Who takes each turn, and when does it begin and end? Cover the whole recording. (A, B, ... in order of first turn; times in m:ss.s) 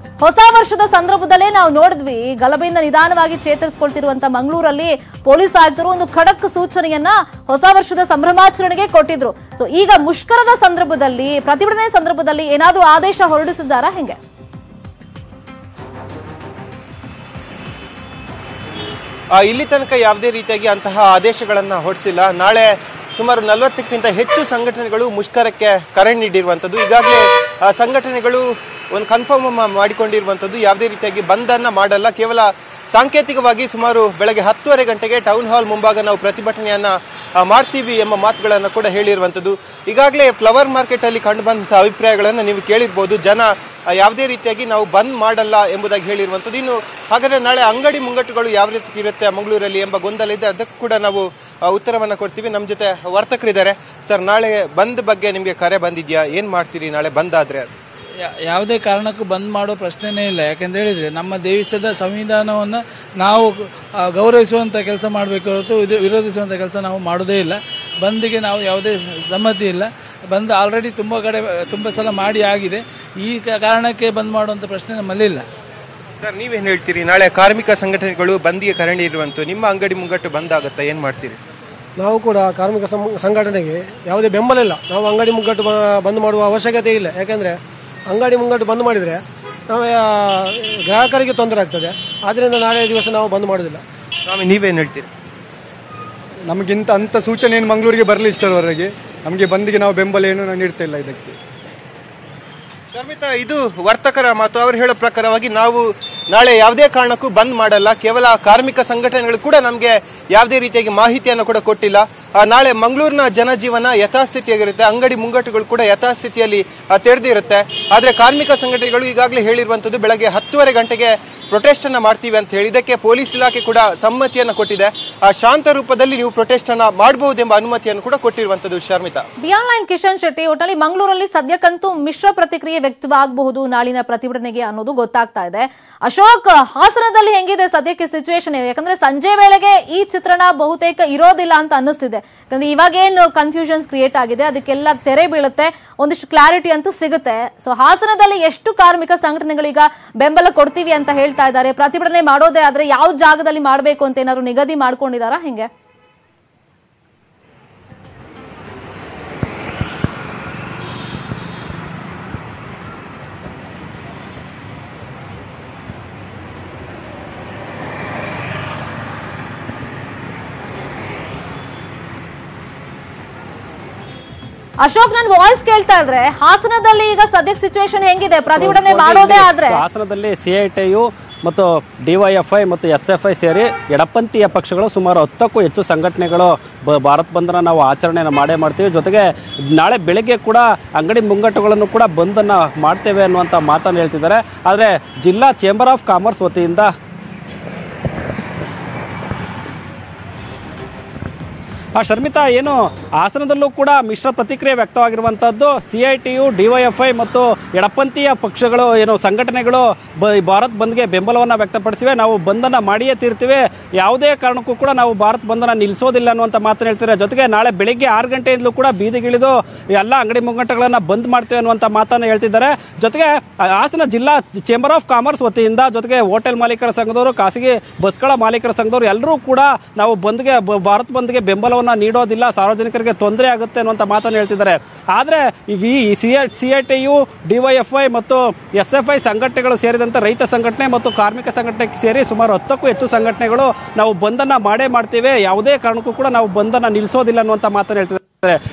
0:00.2-0:14.2 A
0:19.3-0:57.7 B
0:58.2-1:15.5 C
1:16.2-1:21.4 B
1:22.0-1:27.6 D
1:28.1-1:33.8 D
1:34.3-1:35.1 B
1:36.5-1:41.4 E
1:42.9-2:09.3 B
2:09.4-2:35.7 A
2:54.8-2:59.8 A
2:58.6-3:16.9 F
3:22.0-4:08.6 F